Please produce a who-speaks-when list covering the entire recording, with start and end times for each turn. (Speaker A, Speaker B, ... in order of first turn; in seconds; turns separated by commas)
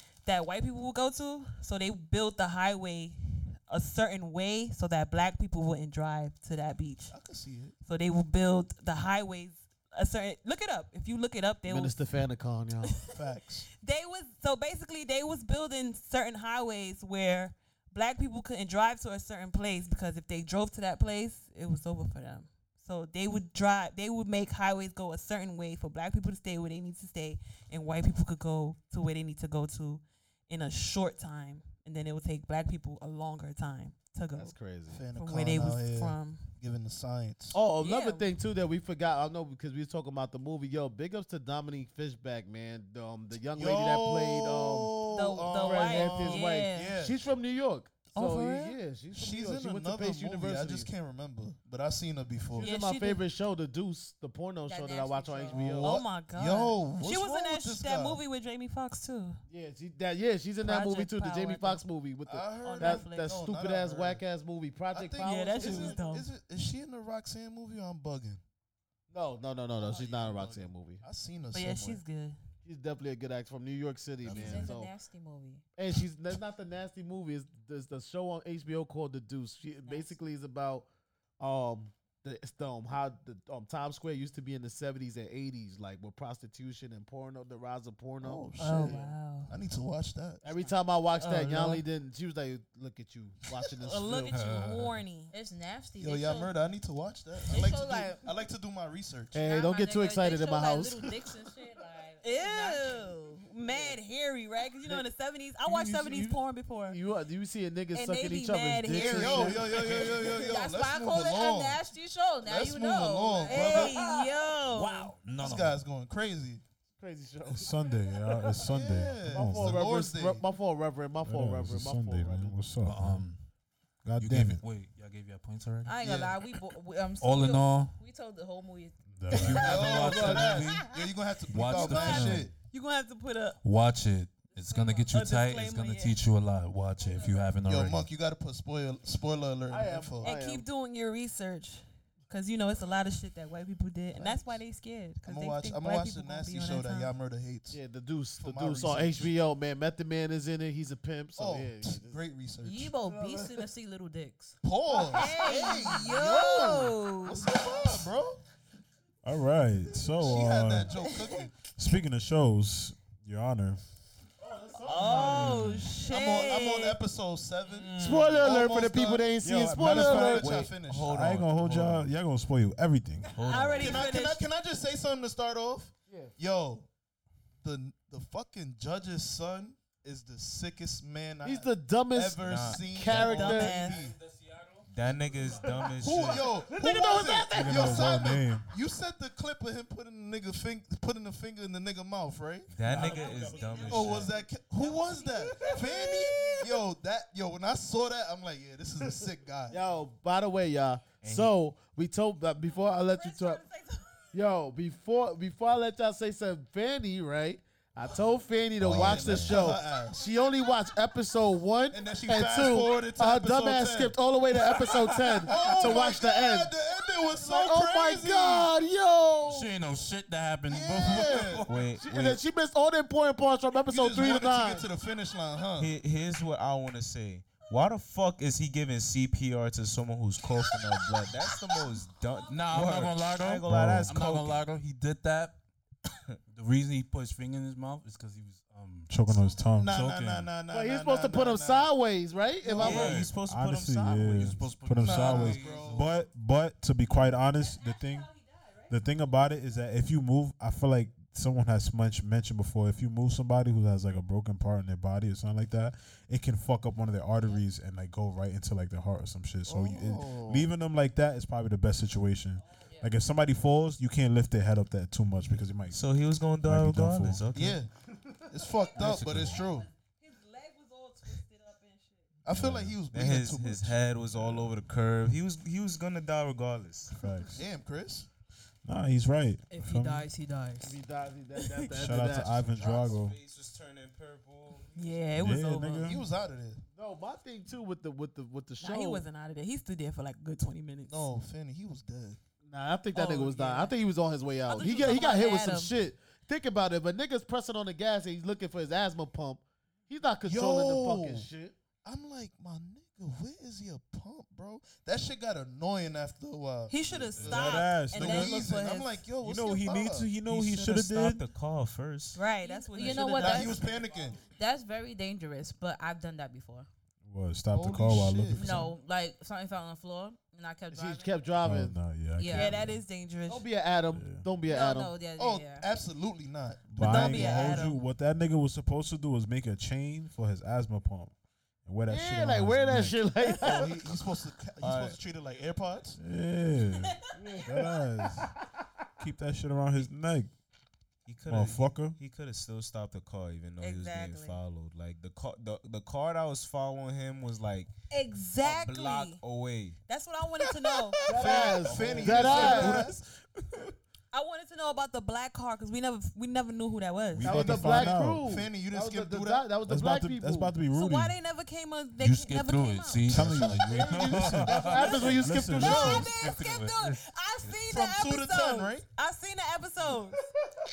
Speaker A: 0.2-7.1, Speaker B: 7.1-7.7, Speaker A: 7.8-11.9, Speaker C: 11.7-13.1, Speaker B: 13.1-13.7, Speaker A: 13.8-34.5, Speaker C: 34.4-35.0, Speaker B: 34.9-37.6, Speaker A: 35.1-36.5, Speaker C: 37.5-44.9, Speaker A: 37.8-38.3, Speaker B: 43.5-47.2, Speaker A: 45.1-46.9, Speaker C: 45.5-50.9, Speaker A: 48.1-48.8, Speaker B: 49.1-52.7, Speaker C: 52.5-55.9, Speaker A: 52.6-53.2, Speaker D: 54.7-55.7, Speaker B: 55.5-58.2, Speaker A: 55.8-59.4, Speaker C: 59.5-66.0, Speaker A: 60.6-61.8, Speaker B: 62.3-64.2, Speaker A: 62.6-63.3, Speaker B: 64.9-68.4, Speaker A: 65.2-66.3, Speaker C: 69.1-71.0, Speaker B: 69.9-72.0, Speaker A: 71.5-72.4, Speaker C: 72.6-74.9, Speaker B: 74.2-74.7, Speaker D: 74.2-75.6, Speaker C: 75.8-80.9, Speaker D: 79.8-80.1, Speaker C: 81.4-89.1, Speaker B: 88.2-89.0, Speaker A: 88.6-89.5, Speaker B: 89.5-90.4, Speaker C: 90.4-94.3, Speaker A: 91.2-91.8, Speaker A: 93.8-95.3, Speaker E: 94.3-95.0, Speaker D: 95.3-96.5, Speaker B: 96.0-99.4, Speaker D: 97.5-98.2, Speaker C: 99.3-101.3, Speaker D: 99.3-103.2, Speaker A: 102.2-107.0, Speaker C: 103.7-104.0, Speaker C: 105.6-110.1, Speaker A: 107.9-110.2, Speaker B: 108.9-111.8, Speaker D: 110.0-114.1, Speaker B: 112.4-113.9, Speaker A: 113.5-115.1, Speaker E: 114.7-115.8, Speaker B: 115.4-116.6, Speaker C: 117.0-118.7, Speaker F: 117.6-119.8, Speaker B: 118.7-120.4, Speaker C: 119.3-122.6, Speaker F: 121.2-123.3, Speaker E: 122.8-123.4, Speaker F: 124.0-124.6, Speaker E: 124.2-125.9, Speaker D: 125.8-128.9, Speaker B: 126.0-126.4, Speaker E: 127.2-127.9, Speaker F: 129.2-129.7, Speaker E: 129.3-130.9, Speaker C: 129.3-130.8, Speaker B: 129.5-132.5, Speaker E: 131.5-132.5, Speaker A: 131.7-133.6, Speaker E: 133.6-138.1, Speaker D: 134.5-135.1, Speaker A: 135.0-136.2, Speaker D: 137.0-137.3, Speaker B: 137.6-140.3, Speaker C: 139.7-140.7, Speaker A: 140.2-147.1, Speaker B: 144.2-144.6, Speaker B: 145.2-147.8, Speaker C: 147.7-152.2, Speaker B: 148.4-149.3, Speaker B: 151.4-152.9, Speaker D: 152.6-154.6, Speaker C: 153.0-153.6, Speaker B: 154.6-158.4, Speaker C: 155.0-155.3, Speaker D: 155.1-155.8, Speaker A: 155.2-157.4, Speaker F: 159.2-160.9, Speaker B: 160.2-161.5, Speaker F: 161.7-163.8, Speaker C: 164.4-165.8, Speaker A: 164.8-167.0, Speaker B: 165.1-165.5, Speaker F: 165.3-165.9, Speaker B: 166.1-172.0, Speaker C: 168.0-170.7, Speaker F: 169.4-173.4, Speaker G: 169.9-171.3, Speaker G: 173.3-174.1, Speaker A: 173.4-174.4, Speaker B: 173.8-176.9, Speaker C: 176.1-176.3, Speaker B: 177.6-184.2, Speaker C: 181.4-184.0, Speaker G: 182.4-182.9, Speaker A: 183.1-184.0, Speaker G: 184.9-186.5, Speaker C: 185.6-188.4, Speaker B: 186.0-193.3, Speaker F: 187.5-188.7, Speaker G: 192.7-194.4, Speaker F: 192.8-194.3, Speaker A: 193.2-194.1, Speaker B: 193.9-199.8, Speaker A: 194.8-196.7, Speaker C: 199.7-203.6, Speaker G: 201.2-201.5, Speaker A: 203.1-204.3, Speaker C: 204.3-216.7, Speaker B: 208.8-210.3, Speaker G: 208.8-209.5, Speaker B: 211.9-214.2, Speaker B: 214.7-218.7, Speaker C: 217.3-219.7, Speaker E: 219.4-221.7, Speaker B: 220.7-221.7, Speaker G: 221.7-222.4, Speaker C: 221.9-224.8, Speaker B: 223.9-225.9, Speaker G: 225.8-234.6, Speaker E: 232.5-235.6, Speaker F: 233.6-234.2, Speaker E: 236.5-239.2, Speaker F: 239.1-240.0, Speaker B: 239.8-241.9, Speaker E: 239.8-240.5, Speaker C: 240.7-243.2, Speaker B: 242.6-243.3, Speaker G: 242.7-244.8, Speaker F: 242.9-248.3, Speaker E: 242.9-243.2, Speaker E: 244.3-245.9, Speaker B: 244.9-246.2, Speaker F: 248.9-266.0, Speaker B: 259.7-260.7, Speaker G: 265.9-267.8, Speaker F: 266.6-267.4, Speaker B: 267.5-267.9, Speaker B: 268.5-269.9, Speaker F: 269.1-269.6, Speaker A: 269.6-272.3, Speaker B: 272.4-273.9, Speaker F: 272.5-272.9, Speaker G: 273.1-277.1, Speaker F: 273.8-274.8, Speaker F: 277.1-277.6, Speaker B: 277.5-278.3, Speaker F: 278.8-280.3, Speaker A: 279.7-280.9, Speaker C: 280.8-282.6, Speaker F: 281.9-283.4, Speaker G: 282.7-284.9, Speaker A: 284.9-286.2, Speaker F: 285.3-286.2, Speaker B: 286.1-286.8, Speaker C: 286.9-289.2, Speaker A: 288.8-291.2, Speaker B: 291.1-292.4, Speaker C: 292.6-301.8, Speaker A: 293.1-293.9, Speaker A: 294.7-295.9, Speaker D: 295.0-295.4, Speaker B: 300.4-301.5, Speaker B: 302.0-310.3, Speaker A: 306.9-309.2, Speaker F: 307.4-308.6, Speaker F: 309.4-311.4, Speaker G: 310.4-312.4, Speaker A: 312.3-313.8, Speaker D: 312.6-313.8, Speaker B: 313.4-314.4, Speaker D: 314.5-316.9, Speaker F: 317.2-318.9, Speaker B: 317.7-318.8, Speaker D: 318.5-321.4, Speaker C: 320.9-322.0, Speaker F: 321.6-323.0, Speaker D: 322.4-322.7, Speaker A: 322.5-323.6, Speaker C: 323.5-325.1, Speaker F: 324.1-324.4, Speaker D: 324.7-325.9, Speaker B: 325.4-327.5, Speaker F: 326.9-331.3, Speaker A: 327.0-328.0, Speaker F: 331.9-333.2, Speaker C: 332.1-333.9, Speaker B: 333.6-336.2, Speaker G: 334.8-335.2, Speaker F: 336.2-338.5, Speaker C: 337.4-338.5, Speaker F: 339.2-340.5, Speaker G: 341.2-347.9, Speaker F: 341.5-342.1, Speaker A: 343.8-344.6, Speaker A: 348.1-349.4, Speaker G: 348.6-350.0, Speaker A: 350.1-351.2, Speaker B: 351.2-353.2, Speaker C: 351.3-353.1, Speaker F: 351.9-353.9, Speaker A: 352.4-352.8, Speaker A: 354.3-357.7, Speaker F: 357.3-358.5, Speaker C: 357.4-360.7, Speaker B: 357.5-359.7, Speaker F: 359.8-361.4, Speaker A: 360.9-363.3, Speaker E: 362.2-365.2, Speaker F: 363.2-366.3, Speaker C: 363.5-366.3, Speaker A: 364.8-370.4, Speaker E: 366.1-367.8, Speaker B: 367.9-369.1